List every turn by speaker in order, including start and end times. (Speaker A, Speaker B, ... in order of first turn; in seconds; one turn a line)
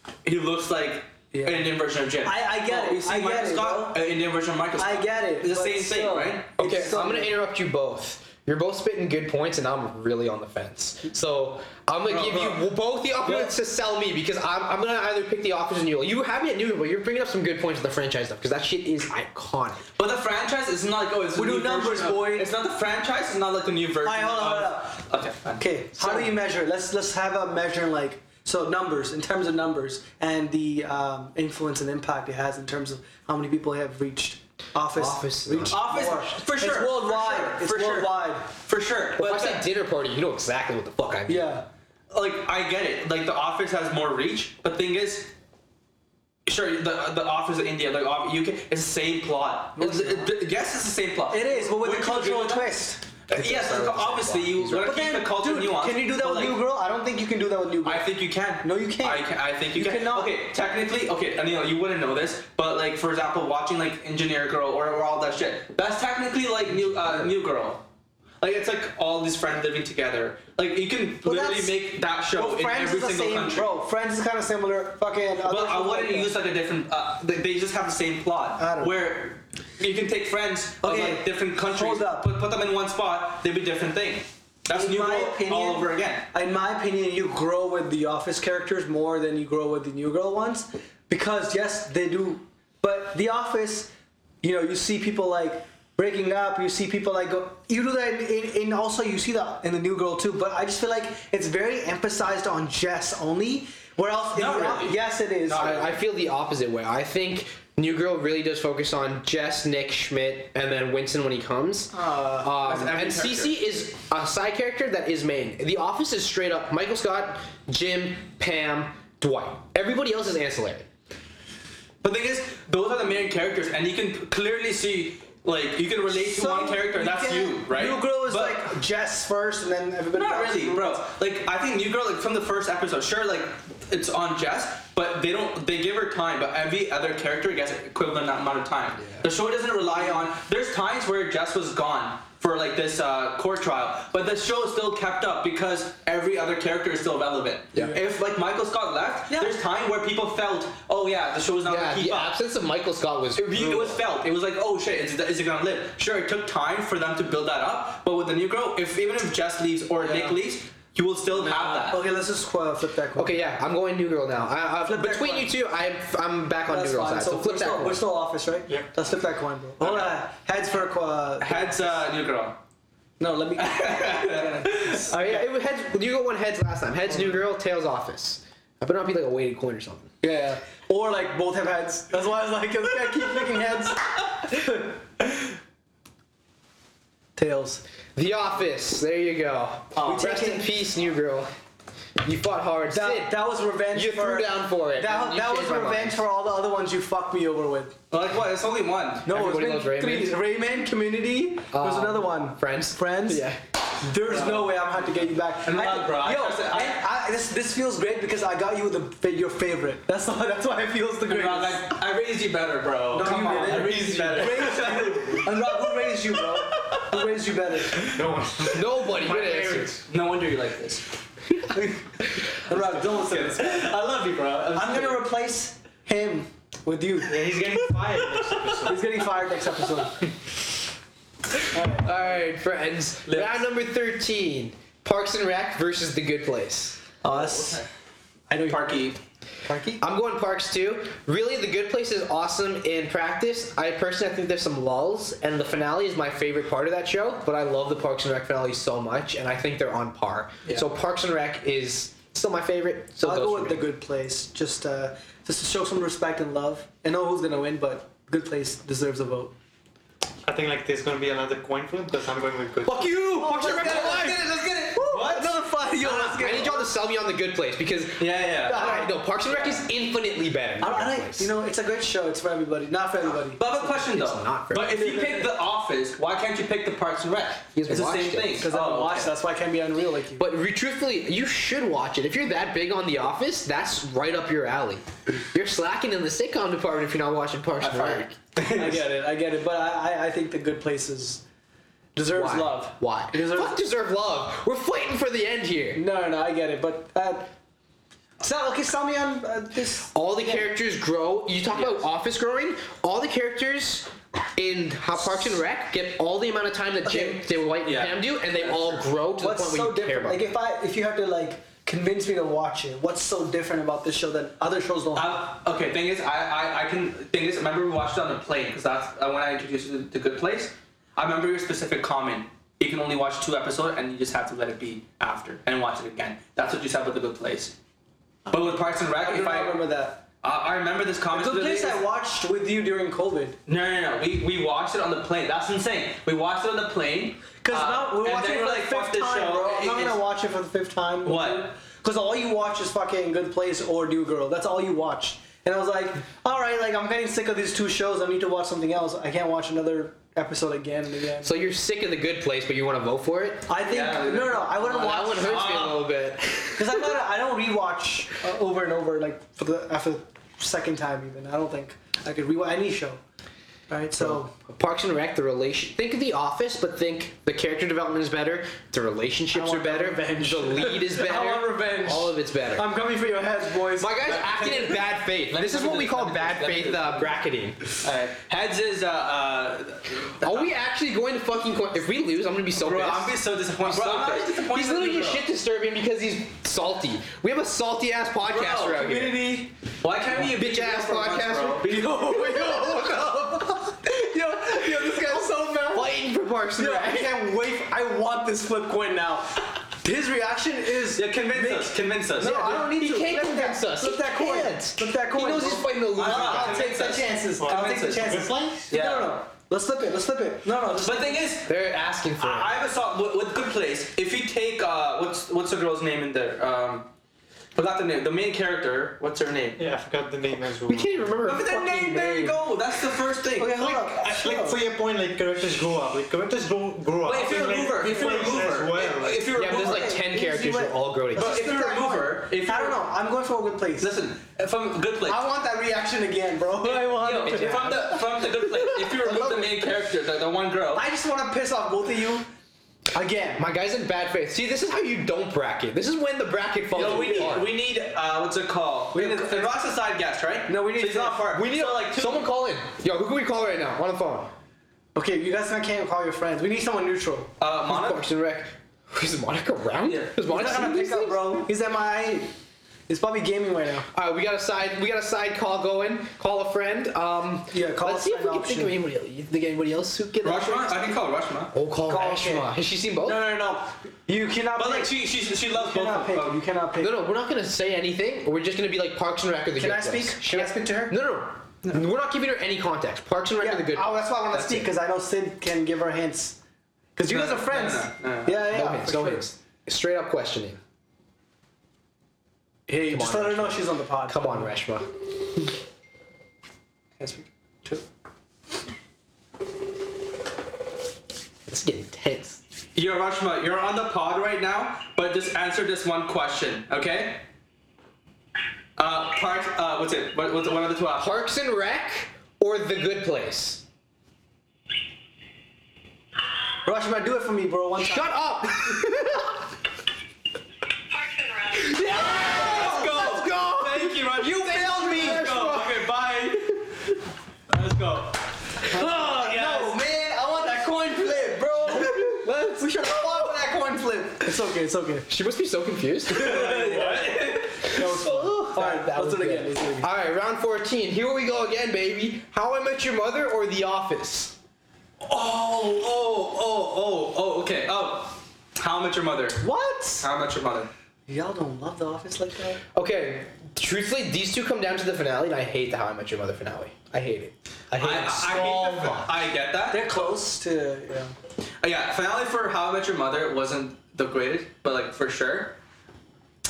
Speaker A: 0.2-6.6
Speaker B: 1.3-1.7
Speaker B: 2.2-4.0
Speaker B: 4.8-7.3
Speaker C: 6.6-19.9
Speaker A: 12.1-12.7
Speaker A: 20.0-26.2
Speaker B: 21.3-22.5
Speaker B: 24.0-25.0
Speaker B: 25.6-38.5
Speaker C: 34.9-36.3
Speaker A: 35.7-39.6
Speaker C: 39.1-41.5
Speaker B: 41.3-41.7
Speaker A: 42.1-45.3
Speaker A: 46.5-56.6
Speaker B: 49.8-50.3
Speaker B: 51.3-53.0
Speaker C: 53.3-54.9
Speaker B: 54.8-60.4
Speaker A: 57.8-67.8
Speaker A: 68.4-73.7
Speaker B: 71.2-76.3
Speaker A: 75.4-86.2
Speaker B: 78.6-79.0
Speaker B: 80.8-82.3
Speaker B: 84.7-93.9
Speaker B: 94.4-105.8
Speaker A: 104.3-106.0
Speaker C: 105.5-120.8
Speaker B: 111.9-112.4
Speaker A: 112.3-113.5
Speaker A: 122.0-128.7
Speaker B: 126.1-131.0
Speaker A: 130.1-152.3
Speaker B: 149.3-149.6
Speaker C: 151.6-154.0
Speaker A: 153.3-162.1
Speaker B: 160.0-160.3
Speaker B: 161.3-163.4
Speaker C: 163.2-168.0
Speaker B: 164.8-165.5
Speaker B: 166.7-172.1
Speaker A: 169.8-170.2
Speaker A: 171.4-172.6
Speaker B: 173.2-175.5
Speaker A: 173.6-175.1
Speaker C: 175.1-180.1
Speaker B: 180.2-185.5
Speaker B: 187.3-187.8
Speaker C: 188.2-191.5
Speaker A: 189.9-190.3
Speaker B: 190.0-190.7
Speaker C: 192.2-193.3
Speaker B: 192.9-197.9
Speaker C: 193.9-196.2
Speaker A: 198.1-199.3
Speaker B: 199.2-203.4
Speaker C: 199.3-200.4
Speaker C: 201.7-203.6
Speaker B: 204.0-211.9
Speaker A: 204.2-205.1
Speaker A: 205.6-207.0
Speaker A: 211.2-215.5
Speaker B: 213.1-218.1
Speaker C: 213.6-214.4
Speaker A: 216.9-217.2
Speaker D: 218.0-220.0
Speaker C: 218.7-220.0
Speaker A: 220.0-221.1
Speaker B: 221.7-224.0
Speaker A: 222.7-225.2
Speaker B: 224.7-227.4
Speaker D: 227.2-229.2
Speaker B: 228.8-230.2
Speaker B: 231.7-232.4
Speaker C: 232.0-237.0
Speaker A: 233.2-233.6
Speaker B: 237.2-237.8
Speaker A: 237.3-237.8
Speaker B: 238.5-239.0
Speaker A: 238.7-239.2
Speaker B: 239.7-240.0
Speaker C: 240.0-253.9
Speaker B: 253.2-259.5
Speaker D: 260.4-263.1
Speaker A: 262.9-265.6
Speaker B: 263.1-266.9
Speaker C: 263.3-265.4
Speaker C: 266.0-271.5
Speaker A: 268.2-269.0
Speaker B: 268.6-269.1
Speaker B: 270.8-273.9
Speaker A: 273.6-279.4
Speaker C: 273.9-275.0
Speaker B: 274.9-275.5
Speaker C: 277.8-278.7
Speaker B: 278.6-280.5
Speaker C: 280.4-288.3
Speaker A: 287.8-289.0
Speaker B: 288.6-291.4
Speaker B: 292.1-293.8
Speaker C: 292.3-296.0
Speaker B: 295.9-297.5
Speaker B: 298.4-300.7
Speaker C: 300.1-310.5
Speaker A: 301.7-302.1
Speaker B: 307.1-307.4
Speaker A: 307.8-309.1
Speaker B: 309.4-315.5
Speaker A: 315.1-327.8
Speaker B: 328.5-330.2
Speaker A: 328.5-329.8
Speaker A: 330.4-332.0
Speaker B: 331.3-333.6
Speaker A: 333.7-340.2
Speaker B: 337.6-351.5
Speaker A: 341.2-341.7
Speaker C: 351.4-353.7
Speaker B: 353.7-355.8
Speaker A: 353.8-356.1
Speaker C: 354.8-357.0
Speaker B: 356.7-363.2
Speaker B: 363.9-364.5
Speaker C: 364.2-372.9
Speaker B: 369.5-375.0
Speaker C: 373.9-377.8
Speaker A: 375.5-377.3
Speaker A: 378.0-380.7
Speaker C: 380.4-389.6
Speaker A: 382.7-385.4
Speaker A: 388.5-389.1
Speaker B: 388.9-389.7
Speaker A: 390.0-392.2
Speaker C: 390.4-394.0
Speaker B: 391.9-396.1
Speaker C: 395.0-397.4
Speaker B: 396.8-411.5
Speaker A: 401.1-402.6
Speaker C: 402.4-406.9
Speaker A: 406.1-409.4
Speaker D: 407.6-408.9
Speaker A: 411.0-411.8
Speaker C: 411.6-412.7
Speaker A: 412.4-417.1
Speaker A: 417.7-419.8
Speaker D: 419.8-421.3
Speaker C: 420.9-422.6
Speaker A: 421.4-423.9
Speaker B: 423.6-424.8
Speaker D: 423.8-429.5
Speaker A: 427.2-430.1
Speaker B: 428.0-428.8
Speaker C: 429.5-431.6
Speaker B: 429.6-434.1
Speaker A: 431.4-433.0
Speaker A: 434.0-435.4
Speaker B: 435.2-439.9
Speaker A: 436.8-441.1
Speaker C: 437.4-438.1
Speaker B: 440.9-442.4
Speaker B: 443.1-443.6
Speaker C: 443.6-447.7
Speaker A: 446.9-452.5
Speaker B: 446.9-447.6
Speaker B: 449.1-449.8
Speaker B: 450.7-451.5
Speaker C: 451.5-454.5
Speaker B: 455.1-457.5
Speaker A: 457.6-458.2
Speaker C: 457.9-461.7
Speaker A: 460.1-460.3
Speaker B: 460.4-462.5
Speaker B: 463.1-464.1
Speaker C: 464.1-471.1
Speaker B: 467.7-468.9
Speaker A: 470.4-471.7
Speaker C: 471.7-473.4
Speaker B: 472.1-475.1
Speaker A: 474.8-476.6
Speaker B: 475.7-477.1
Speaker C: 477.0-484.9
Speaker B: 479.8-481.2
Speaker B: 483.6-486.6
Speaker B: 487.1-489.4
Speaker A: 487.3-488.7
Speaker C: 488.6-490.8
Speaker B: 492.9-494.7
Speaker C: 493.0-495.1
Speaker B: 497.2-498.0
Speaker C: 501.7-502.6
Speaker A: 502.9-507.4
Speaker A: 509.0-511.4
Speaker C: 511.2-513.8
Speaker B: 516.8-518.4
Speaker C: 518.0-519.6
Speaker A: 521.4-526.8
Speaker C: 521.7-526.1
Speaker B: 525.0-525.4
Speaker A: 527.7-530.1
Speaker B: 528.8-535.3
Speaker C: 531.9-533.6
Speaker C: 535.3-537.0
Speaker A: 536.3-538.1
Speaker B: 536.3-540.1
Speaker C: 537.9-544.5
Speaker A: 545.2-549.6
Speaker B: 549.6-550.3
Speaker A: 550.2-550.9
Speaker B: 551.3-552.8
Speaker C: 552.9-559.3
Speaker A: 558.0-560.2
Speaker B: 559.9-561.3
Speaker A: 561.8-565.8